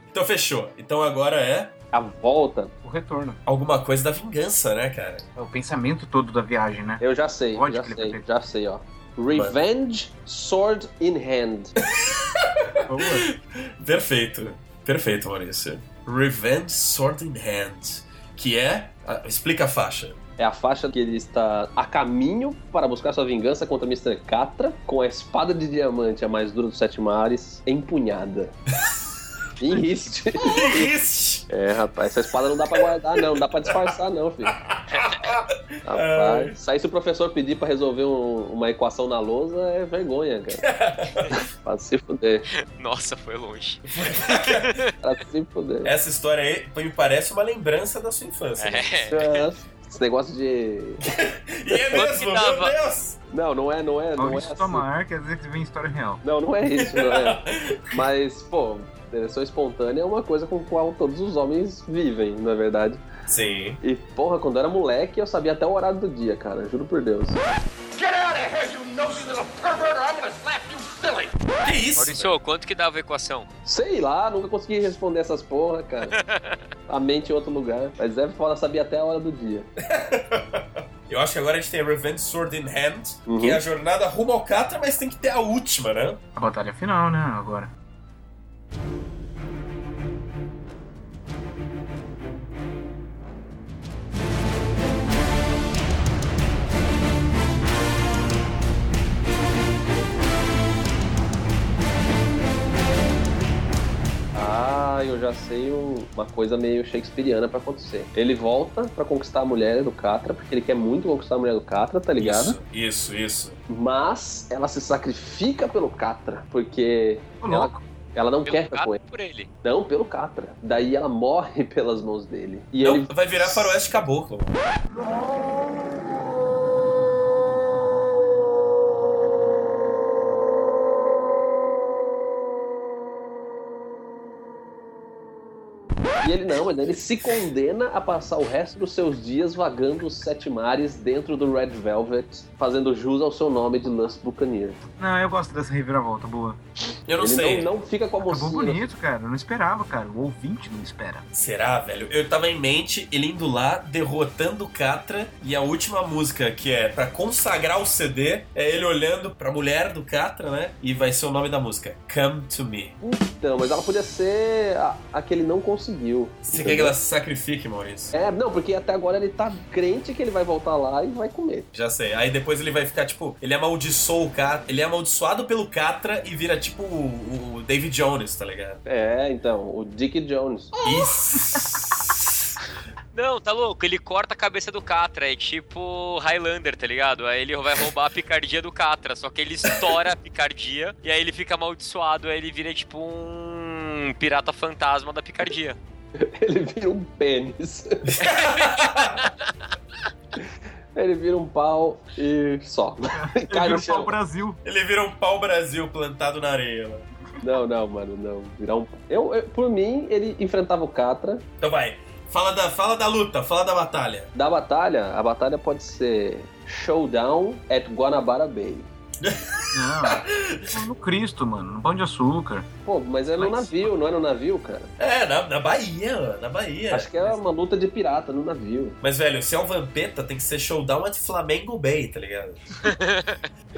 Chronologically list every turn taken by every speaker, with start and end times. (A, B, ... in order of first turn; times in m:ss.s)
0:00.1-0:01.7 A
0:01.9-0:02.7 B
0:02.8-0:03.4 C
0:03.4-0:05.2 A
0:05.4-0:07.0 C
0:07.0-0:11.7 B
0:07.5-0:08.2 C
0:09.3-0:09.6 A
0:12.0-0:20.2 A
0:12.9-0:13.3 C
0:20.4-0:28.5 B
0:29.6-0:30.9 B
0:30.4-0:31.5 A
0:31.5-0:34.5 B
0:34.7-0:36.5 A
0:35.8-0:40.6 B
0:40.6-0:41.4 A
0:41.6-0:42.5 B
0:42.7-0:44.9 D
0:43.9-0:44.8 A
0:45.0-0:45.9 B
0:45.8-0:49.1 A
0:48.6-0:49.4 D
0:49.1-0:51.0 B
0:51.0-0:53.2 A
0:51.7-0:52.0 B
0:51.9-0:52.7 D
0:53.3-0:54.8 B
0:54.2-0:56.2 C
0:56.2-0:57.4 B
0:56.8-0:58.0 A
0:57.9-1:03.0 B
1:03.3-1:03.8 A
1:03.8-1:07.4 B
1:08.0-1:11.3 E
1:11.6-1:12.3 A
1:12.0-1:13.5 D
1:13.6-1:16.2 B
1:16.2-1:16.6 D
1:16.9-1:19.7 B
1:19.8-1:26.2 A
1:23.3-1:23.6 B
1:26.3-1:27.7 C
1:44.3-1:52.6 B
1:52.2-1:53.6 A
1:53.7-1:59.0 B
1:57.4-1:57.8 C
1:58.4-1:59.5 D
1:59.6-2:03.6 B
2:02.8-2:04.6 A
2:16.2-2:24.8 B
2:25.0-2:26.6 C
2:27.1-2:27.7 A
2:27.2-2:28.9 B
2:28.2-2:31.2 C
2:31.3-2:42.9 A
2:43.0-2:46.9 B
2:46.4-2:48.1 A
2:48.1-2:51.7 B
2:51.7-2:58.8 A
2:58.8-3:00.7 B
3:00.8-3:02.5 A
3:03.1-3:15.8 D
3:16.2-3:18.1 B
3:18.1-3:19.2 A
3:18.4-3:19.3 D
3:20.9-3:24.1 B
3:23.1-3:24.6 C
3:24.6-3:27.0 A
3:27.4-3:31.4 B
3:31.6-3:34.3 A
3:34.3-3:38.9 B
3:39.2-3:40.7 A
3:39.7-3:42.7 C
3:42.8-3:44.9 B
3:43.4-3:43.9 C
3:45.0-3:47.1 A
3:46.9-3:49.0 B
3:49.0-3:52.8 A
3:52.8-3:53.5 D